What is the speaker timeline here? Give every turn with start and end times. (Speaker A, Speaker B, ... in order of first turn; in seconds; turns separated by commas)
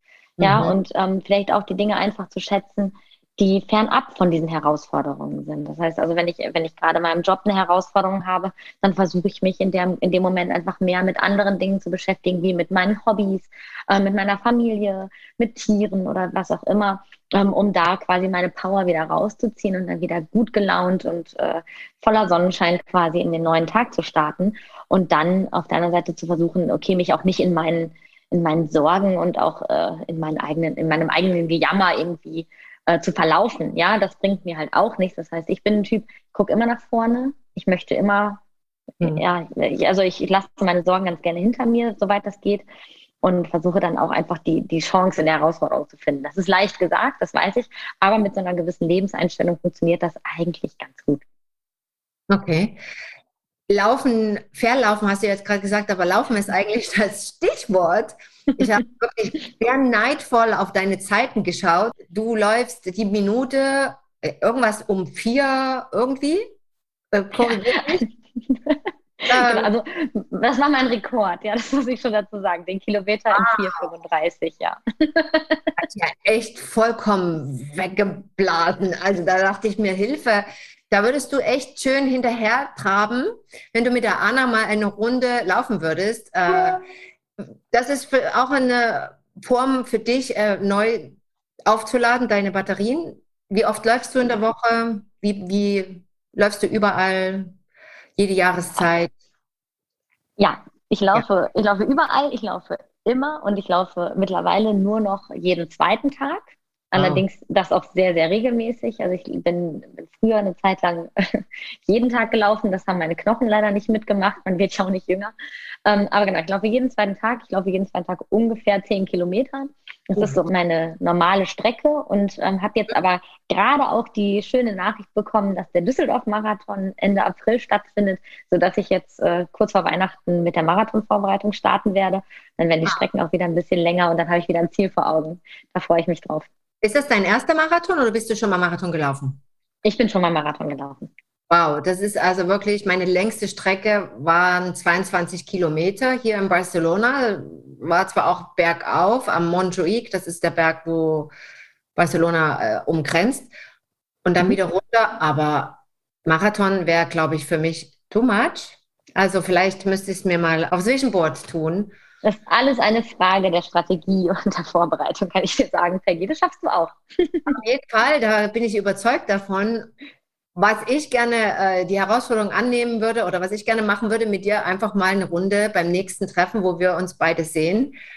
Speaker A: 0.4-0.8, Speaker B: 0.4-38.4, Speaker B: 39.0-42.7, Speaker B: 43.2-51.2, Speaker A: 52.3-52.8, Speaker A: 53.7-66.5, Speaker A: 67.1-68.1, Speaker B: 67.4-75.9, Speaker A: 69.3-69.7, Speaker A: 73.3-73.8, Speaker A: 75.8-86.8, Speaker A: 87.4-97.5, Speaker A: 98.2-99.1, Speaker B: 100.4-115.3, Speaker A: 106.9-107.2, Speaker B: 115.9-136.5, Speaker A: 136.8-139.4, Speaker B: 139.8-141.1, Speaker A: 141.5-151.3, Speaker A: 152.0-153.5, Speaker A: 154.2-162.0, Speaker B: 162.2-167.6, Speaker A: 167.5-169.9, Speaker A: 170.6-178.0